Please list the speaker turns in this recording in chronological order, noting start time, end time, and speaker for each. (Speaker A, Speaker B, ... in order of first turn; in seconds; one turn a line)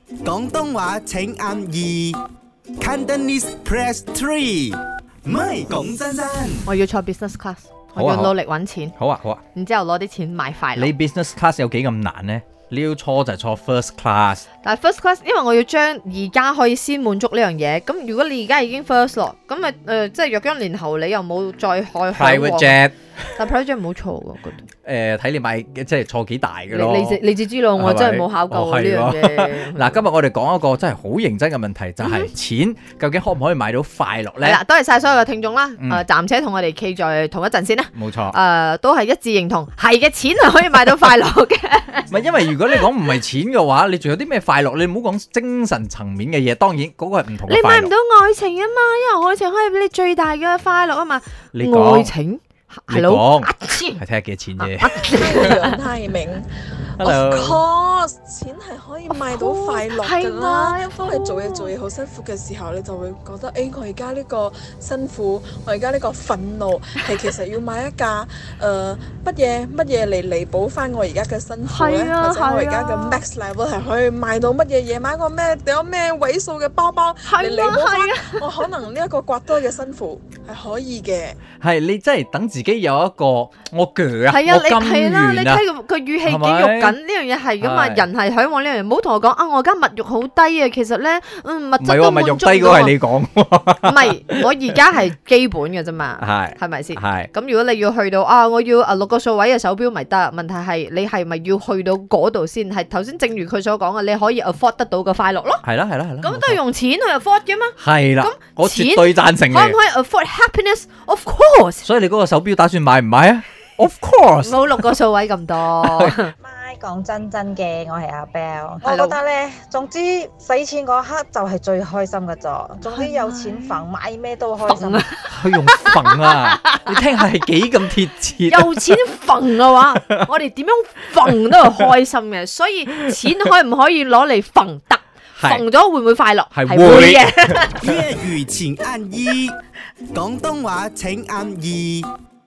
Speaker A: 0.2-2.2
Speaker A: 2.8-6.7
Speaker B: 6.7-8.9
Speaker C: 8.0-8.3
Speaker C: 9.0-9.4
Speaker B: 9.5-10.9
Speaker C: 10.8-14.4
Speaker B: 14.6-22.8
Speaker C: 22.1-23.3
Speaker B: 23.4-24.7
Speaker C: 24.9-34.6
Speaker B: 26.7-30.0
Speaker B: 32.0-32.3
Speaker B: 34.4-42.8
Speaker C: 35.8-36.0
Speaker C: 38.0-38.4
Speaker C: 42.1-47.9
Speaker B: 47.5-54.0
Speaker C: 51.5-52.1
Speaker C: 52.9-55.6
Speaker B: 54.6-55.8
Speaker D: 55.0-81.4
Speaker C: 57.0-57.6
Speaker B: 59.1-61.7
Speaker B: 71.7-73.2
Speaker B: 77.2-78.6
Speaker C: 81.6-85.7
Speaker B: 84.3-93.0
Speaker C: 86.2-87.0
Speaker C: 87.6-88.0
Speaker C: 91.8-94.3
Speaker B: 93.8-105.6
Speaker C: 96.2-97.3
Speaker C: 105.6-106.6
Speaker B: 106.2-111.9
Speaker C: 107.8-109.8
Speaker C: 111.8-114.8
Speaker B: 114.4-116.3
Speaker C: 115.8-116.2
Speaker E: 116.4-125.1
Speaker B: 118.8-119.2
Speaker B: 122.9-123.8
Speaker B: 124.7-127.0
Speaker C: 125.3-128.9
Speaker B: 128.5-138.1
Speaker C: 129.9-130.2
Speaker C: 135.4-135.7
Speaker C: 136.5-137.6
Speaker A: 137.8-139.6
Speaker A: 140.1-142.1